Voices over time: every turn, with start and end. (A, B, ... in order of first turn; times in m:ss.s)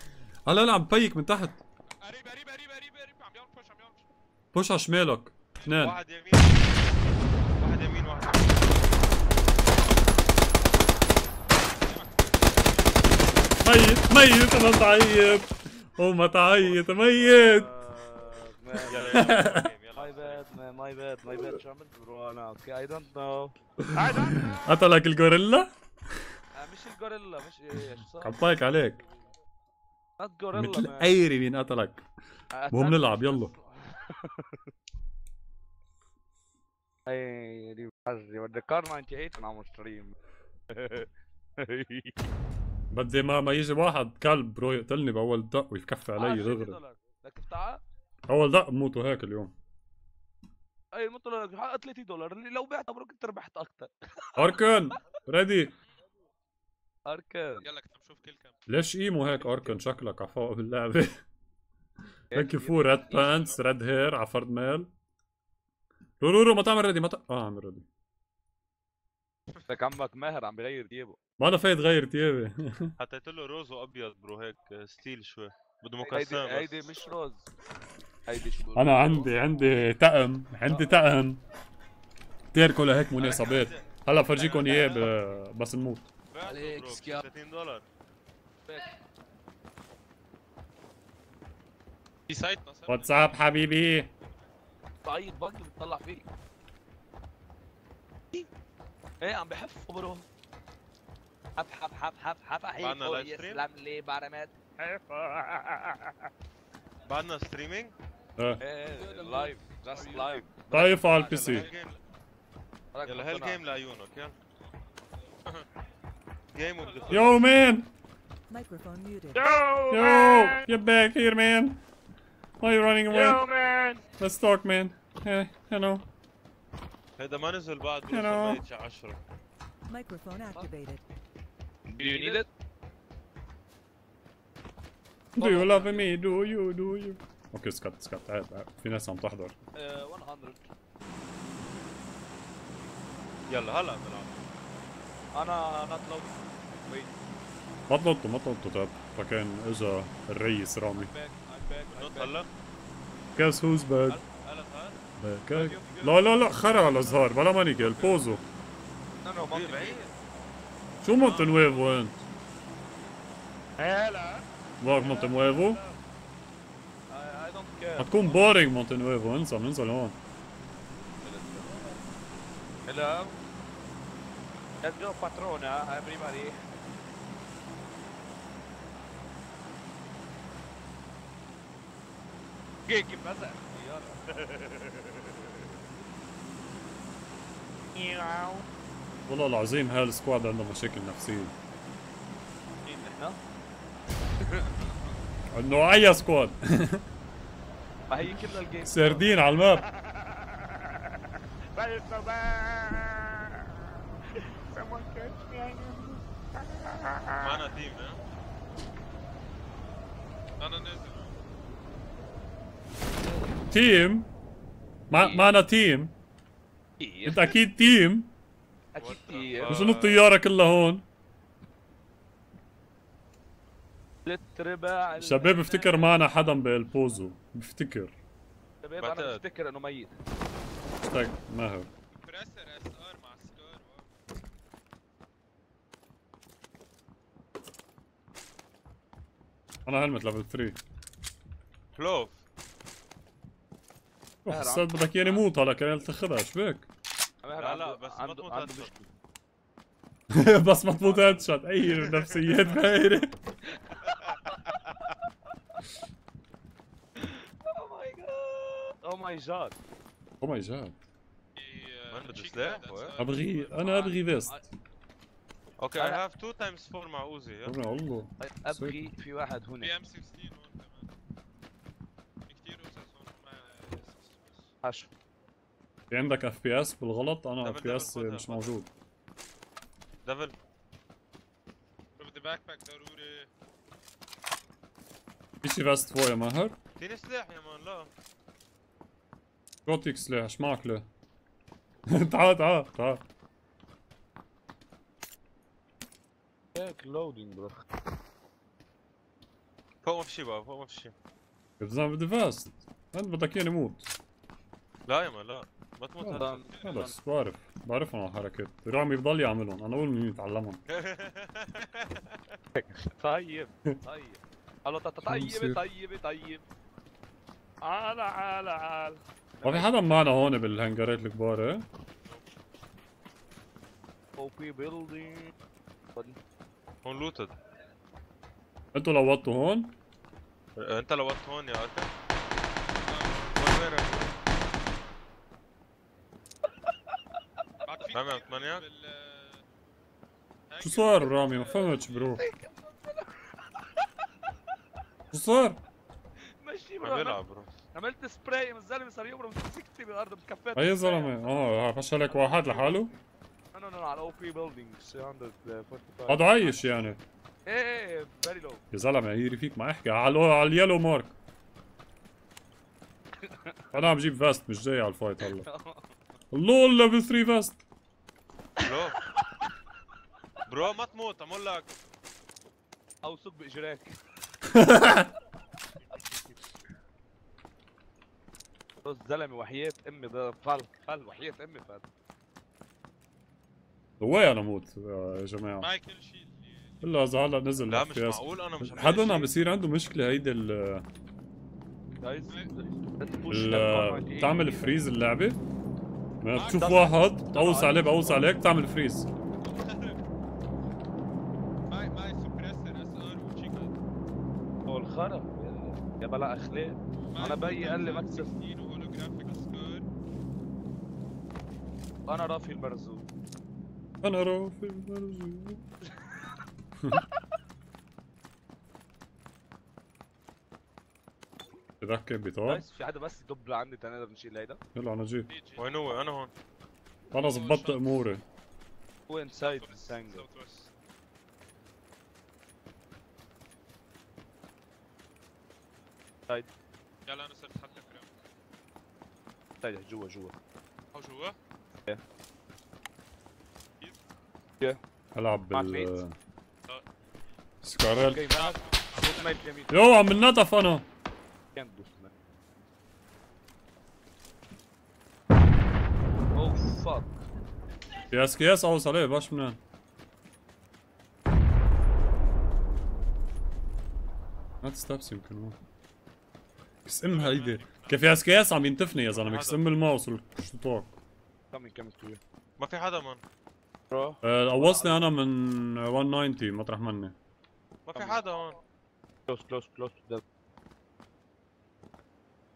0:00.4-0:01.6 A
0:02.0-0:04.0 B
0:04.5-0:06.0 A
0:05.6-0:06.9 C
0:07.5-0:08.9 C
0:11.8-0:12.4 B
0:13.6-0:17.7 A
0:16.6-0:24.6 D
0:18.8-0:20.4 C
0:19.1-0:19.7 A
0:23.8-0:26.2 A
0:26.5-0:28.4 D
0:28.2-0:29.0 A
0:30.2-0:31.1 D
0:30.5-0:32.1 A
0:32.5-0:34.6 D
0:32.7-0:33.5 A
0:37.0-0:40.2 D
0:40.7-0:42.2 D
0:42.9-0:46.8 A
0:46.2-0:47.8 D
0:48.3-0:49.5 A
0:50.9-0:54.6 D
0:54.3-0:55.7 A
0:57.0-0:57.7 D
0:57.6-0:58.6 B
0:58.7-1:01.2 A
0:59.4-0:59.8 D
1:02.3-1:03.5 D
1:02.3-1:04.9 A
1:06.2-1:07.9 A
1:09.7-1:11.2 D
1:11.4-1:12.9 A
1:13.0-1:16.9 C
1:16.1-1:17.5 D
1:18.3-1:19.5 D
1:18.7-1:21.4 A
1:20.7-1:21.0 D
1:22.5-1:26.1 A
1:23.2-1:25.1 C
1:24.4-1:25.1 D
1:26.3-1:27.8 C
1:26.4-1:27.2 D
1:32.3-1:33.4 B
1:32.9-1:34.1 A
1:35.0-1:36.2 D
1:39.2-1:40.2 D
1:41.6-1:46.2 D
1:42.8-1:43.6 C
1:47.0-1:47.9 C
1:48.4-1:48.6 A
1:48.6-1:51.7 D
1:49.0-1:50.3 B
1:50.7-1:51.7 A
1:51.3-1:52.0 C
1:52.9-1:53.6 D
1:53.0-1:54.3 C
1:56.5-1:57.4 C
1:56.9-1:57.2 D
1:57.1-1:57.9 A
1:58.5-1:59.5 E
1:59.3-2:00.6 D
1:59.9-2:01.8 A
2:02.6-2:03.5 A
2:03.1-2:04.0 D
2:04.2-2:06.0 A
2:07.2-2:09.2 C
2:08.1-2:08.6 A
2:09.9-2:11.0 E
2:11.9-2:12.5 D
2:12.0-2:12.3 C
2:15.4-2:19.6 A
2:15.4-2:16.1 D
2:19.7-2:20.7 D
2:23.5-2:24.4 C
2:25.3-2:27.1 D
2:27.9-2:31.1 A
2:30.9-2:32.4 D
2:31.9-2:32.5 C
2:33.3-2:34.2 A
2:34.1-2:35.0 C
2:35.2-2:38.4 A
2:35.5-2:37.2 D
2:39.2-2:40.1 D
2:39.5-2:40.1 C
2:41.0-2:42.2 A
2:41.2-2:41.6 C
2:43.8-2:44.4 D
2:44.8-2:45.8 A
2:45.0-2:46.0 D
2:47.1-2:48.5 D
2:48.0-2:50.2 A
2:51.2-2:51.7 D
2:52.8-2:53.4 D
2:54.8-2:56.6 D
3:02.9-3:05.6 D
3:07.9-3:08.6 D
3:09.2-3:11.5 A
3:12.8-3:13.4 D
3:14.4-3:14.8 D
3:15.5-3:17.0 A
3:18.1-3:27.5 D
3:18.8-3:19.8 A
3:27.4-3:28.2 C
3:30.6-3:31.3 B
3:33.7-3:34.3 A
3:35.1-3:36.1 A
3:35.2-3:35.4 D
3:37.0-3:37.6 D
3:37.2-3:38.3 A
3:38.9-3:39.9 D
3:39.0-3:40.2 C
3:39.7-3:41.0 A
3:44.2-3:46.1 D
3:45.2-3:48.1 A
3:48.8-3:50.2 D
3:49.0-3:49.4 C
3:51.0-3:51.9 A
3:52.1-3:54.0 B
3:59.8-4:00.8 A
4:01.9-4:02.4 C
4:04.4-4:06.9 A
4:04.5-4:05.4 D
4:07.4-4:09.1 D
4:07.6-4:08.9 C
4:10.3-4:13.3 A
4:11.0-4:11.5 D
4:13.7-4:14.5 D
4:17.2-4:19.8 D
4:20.4-4:21.0 A
4:21.6-4:24.1 B
4:22.1-4:23.2 C
4:23.2-4:24.7 A
4:23.7-4:24.6 D
4:25.8-4:27.8 C
4:26.0-4:26.2 D
4:27.6-4:29.0 A
4:28.4-4:29.9 D
4:29.8-4:31.1 B
4:32.4-4:34.7 B
4:34.8-4:35.1 D
4:36.1-4:38.9 A
4:37.6-4:38.7 C
4:40.2-4:40.5 C
4:42.2-4:43.5 B
4:45.6-4:46.8 A
4:47.0-4:48.1 C
4:49.8-4:51.0 A
4:52.1-4:53.2 A
4:56.7-4:57.8 D
5:00.0-5:01.1 C
5:01.8-5:04.1 A
5:05.1-5:06.6 C
5:06.2-5:10.8 A
5:06.4-5:07.1 D
5:10.9-5:12.4 C
5:12.8-5:16.6 D
5:15.2-5:15.8 A
5:17.8-5:20.1 D
5:19.6-5:21.8 A
5:24.4-5:25.5 D
5:27.0-5:27.5 C
5:28.9-5:29.9 A
5:30.8-5:32.1 C
5:33.0-5:33.8 B
5:33.5-5:34.3 C
5:37.8-5:39.6 B
5:38.1-5:38.8 C
5:40.7-5:41.7 B
5:40.8-5:42.4 A
5:42.4-5:43.9 D
5:45.3-5:45.8 A
5:46.6-5:47.4 D
5:47.0-5:47.7 C
5:47.9-5:51.5 D
5:50.7-5:53.1 A
5:52.4-5:52.8 D
5:52.4-5:53.0 B
5:53.7-5:56.8 D
5:56.2-5:57.2 A
5:57.6-5:58.8 D
5:58.9-6:01.3 A
6:03.4-6:03.8 D
6:03.9-6:05.7 A
6:05.5-6:06.1 D
6:06.5-6:07.8 A
6:08.8-6:09.2 C
6:10.6-6:11.9 C
6:13.2-6:14.1 D
6:14.7-6:15.3 A
6:19.0-6:22.0 D
6:24.2-6:25.9 A
6:25.8-6:26.9 B
6:27.0-6:31.0 A
6:27.9-6:29.6 C
6:32.2-6:35.0 D
6:33.5-6:35.6 A
6:36.4-6:39.3 A
6:36.6-6:37.1 B
6:36.6-6:38.5 D
6:39.6-6:40.2 B
6:41.9-6:43.9 B
6:44.8-6:48.5 D
6:47.3-6:50.0 B
6:52.3-6:53.3 D
6:54.2-6:55.8 A
7:02.0-7:02.8 A
7:02.6-7:04.8 D
7:04.9-7:05.5 A
7:05.5-7:06.0 B
7:05.8-7:06.5 C
7:07.3-7:08.4 A
7:07.3-7:08.1 B
7:09.3-7:10.4 D
7:09.6-7:10.9 B
7:17.2-7:18.3 B
7:19.8-7:20.5 D
7:21.1-7:21.6 B
7:25.3-7:26.3 A
7:25.7-7:26.2 D
7:27.8-7:28.5 A
7:28.3-7:29.9 D
7:28.5-7:29.7 B
7:29.9-7:31.0 A
7:31.7-7:32.3 D
7:36.5-7:37.4 D
7:38.3-7:39.8 A
7:44.8-7:45.8 A
7:47.0-7:51.1 A
7:47.3-7:48.3 B
7:49.3-7:49.8 C
7:51.7-7:52.4 D
7:52.8-7:53.4 C
7:54.1-7:55.3 D
7:54.4-7:57.3 A
7:58.0-7:58.8 C
7:58.1-7:58.4 D
7:59.5-8:00.4 D